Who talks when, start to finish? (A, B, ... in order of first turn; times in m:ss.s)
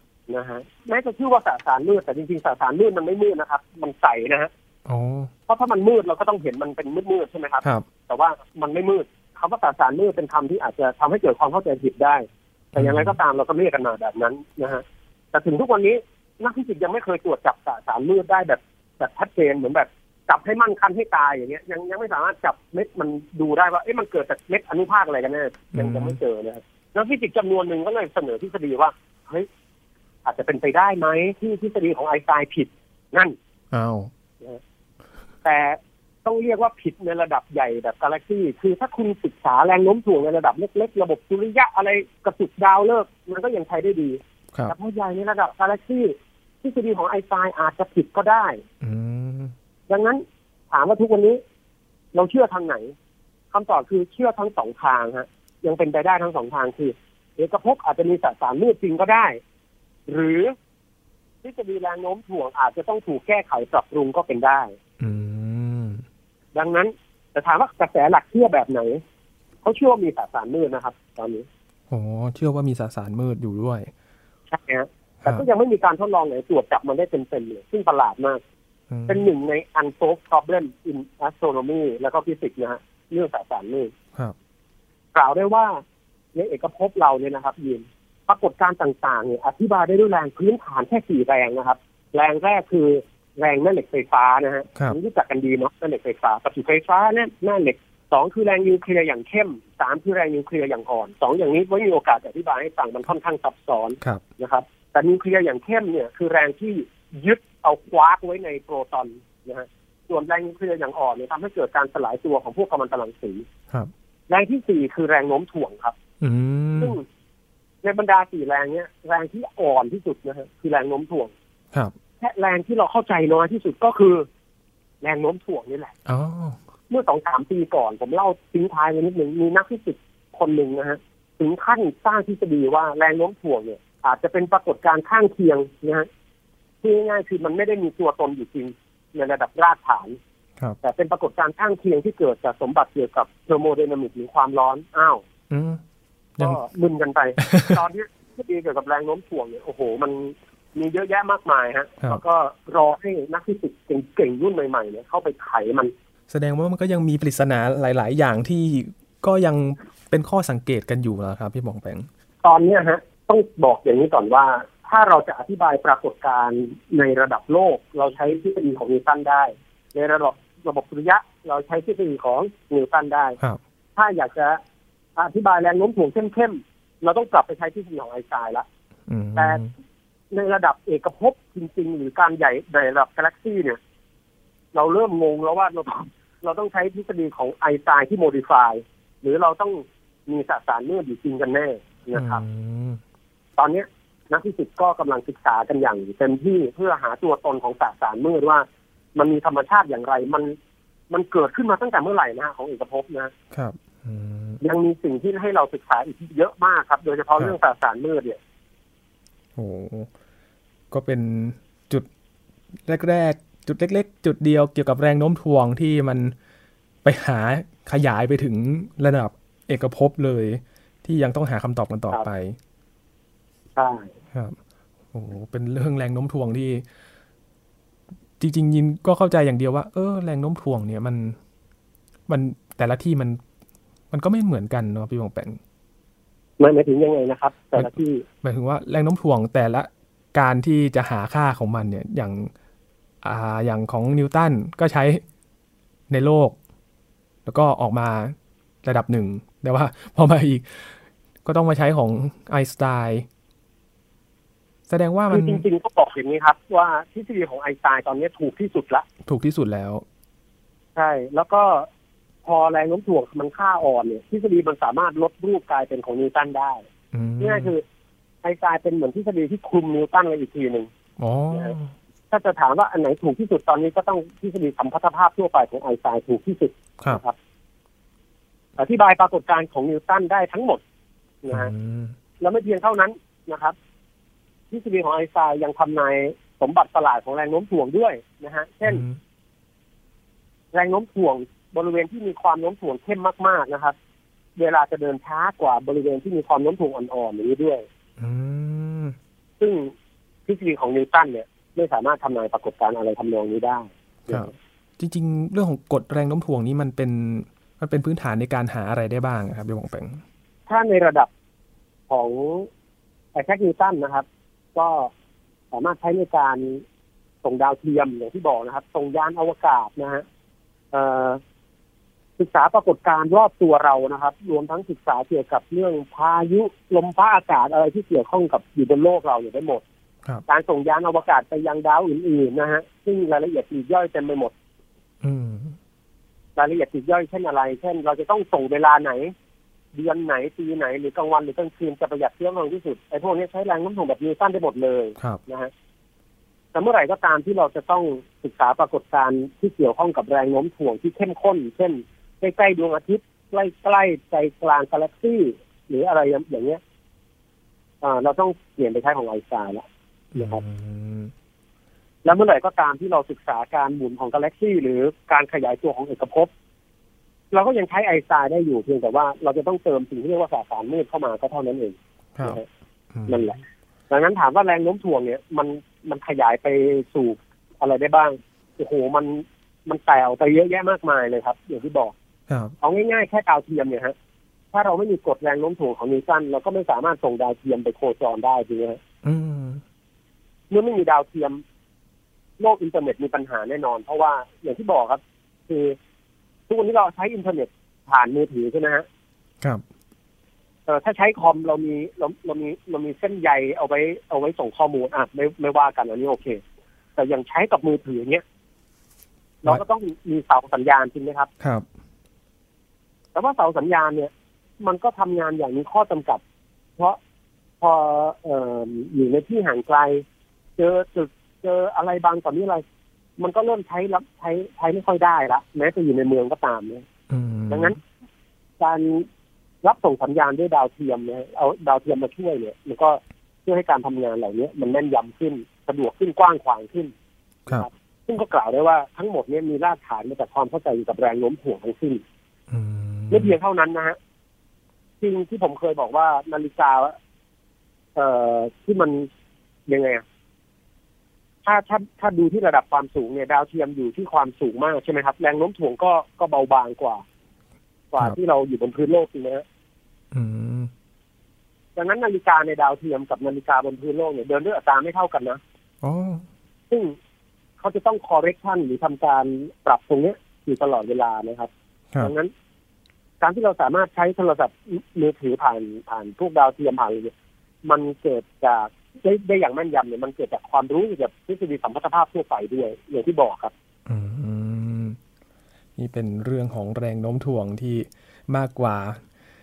0:00.3-0:04.5 A
0:04.9-0:05.3 B
0:05.5-0:29.5 A
0:12.8-0:13.2 B
0:25.8-0:26.2 B
0:30.2-0:33.4 A
0:33.7-0:34.1 B
0:35.4-0:48.6 A
0:48.8-0:49.5 B
0:49.9-0:51.4 A
0:52.1-0:52.9 A
0:53.5-0:59.4 A
1:00.1-1:00.5 A
1:01.4-1:04.8 A
1:05.0-1:06.0 B
1:06.6-1:09.0 A
1:09.6-1:11.5 A
1:11.9-1:13.9 B
1:14.5-1:18.4 A
1:18.9-1:19.3 B
1:19.1-1:23.9 A
1:25.1-1:25.8 A
1:26.3-1:53.5 A
1:54.3-1:56.0 A
1:56.2-1:57.0 B
1:56.8-1:57.0 A
1:57.8-2:01.3 A
2:02.2-2:04.3 A
2:05.0-2:05.9 A
2:06.1-2:06.6 B
2:06.9-2:16.1 A
2:16.8-2:20.2 A
2:20.8-2:25.2 A
2:25.5-2:25.8 B
2:26.4-2:35.9 A
2:27.4-2:27.8 B
2:36.3-2:42.1 B
2:42.4-2:53.4 A
2:54.0-2:54.6 A
2:55.2-2:58.7 A
2:59.1-2:59.7 B
2:59.4-2:59.6 A
3:00.3-3:03.8 A
3:04.7-3:12.4 A
3:12.1-3:13.0 B
3:13.6-3:20.6 A
3:21.1-3:23.3 A
3:23.5-3:24.6 B
3:24.6-3:28.4 A
3:29.6-3:30.1 B
3:30.9-3:32.1 B
3:32.9-3:36.3 B
3:37.0-3:42.6 B
3:43.8-3:44.1 A
3:45.1-3:46.8 B
3:48.4-3:51.4 B
3:52.3-3:53.4 B
3:54.1-3:55.6 B
3:56.6-3:58.2 A
3:58.4-4:02.5 B
4:03.2-4:05.2 B
4:06.1-4:06.6 B
4:07.5-4:13.3 B
4:14.9-4:15.6 B
4:15.3-4:19.1 A
4:19.2-4:20.0 B
4:21.0-4:21.9 A
4:22.4-4:26.8 A
4:27.1-4:27.7 B
4:27.4-4:27.8 A
4:28.4-4:30.9 A
4:31.2-4:31.9 B
4:32.3-4:37.4 A
4:38.8-4:40.8 A
4:41.4-4:41.7 A
4:41.5-4:42.1 B
4:42.4-4:43.8 A
4:44.7-4:49.0 A
4:48.8-4:49.2 B
4:50.7-4:54.0 A
4:54.6-4:57.8 A
4:58.2-4:59.2 B
4:59.6-4:59.9 A
5:00.5-5:04.5 A
5:04.3-5:10.2 B
5:10.7-5:11.3 A
5:12.1-5:12.7 A
5:13.4-5:15.1 A
5:15.7-5:16.8 A
5:17.4-5:20.2 A
5:20.9-5:21.4 A
5:22.4-5:29.8 A
5:30.5-5:34.5 A
5:35.2-5:35.8 B
5:36.6-5:39.3 A
5:39.9-5:45.7 A
5:46.7-5:56.8 A
5:58.0-5:59.8 A
6:00.3-6:01.3 B
6:00.4-6:00.6 A
6:02.2-6:06.5 A
6:07.5-6:12.7 A
6:13.1-6:13.5 B
6:13.3-6:22.1 A
6:22.5-6:22.7 B
6:22.8-6:24.1 A
6:24.7-6:29.0 A
6:29.2-6:29.8 B
6:30.7-6:31.6 A
6:32.6-6:36.0 A
6:36.7-6:39.1 A
6:40.9-6:46.6 A
6:47.2-6:48.4 A
6:49.6-6:51.5 A
6:53.4-6:56.4 A
6:57.8-7:00.2 A
7:00.8-7:02.8 A
7:03.4-7:07.1 A
7:07.3-7:08.0 B
7:07.7-7:08.0 A
7:08.8-7:09.3 A
7:09.8-7:17.1 A
7:17.7-7:22.2 A
7:22.7-7:23.6 B
7:23.3-7:24.2 A
7:25.2-7:27.2 A
7:28.2-7:29.3 A
7:29.9-7:30.2 A
7:31.6-7:37.2 A
7:38.1-7:39.6 A
7:40.3-7:40.9 B
7:42.0-7:45.6 A
7:46.0-7:46.4 B
7:47.8-7:52.5 A
7:53.4-7:57.3 A
7:57.8-8:03.7 A
8:04.1-8:05.2 B
8:06.0-8:09.2 B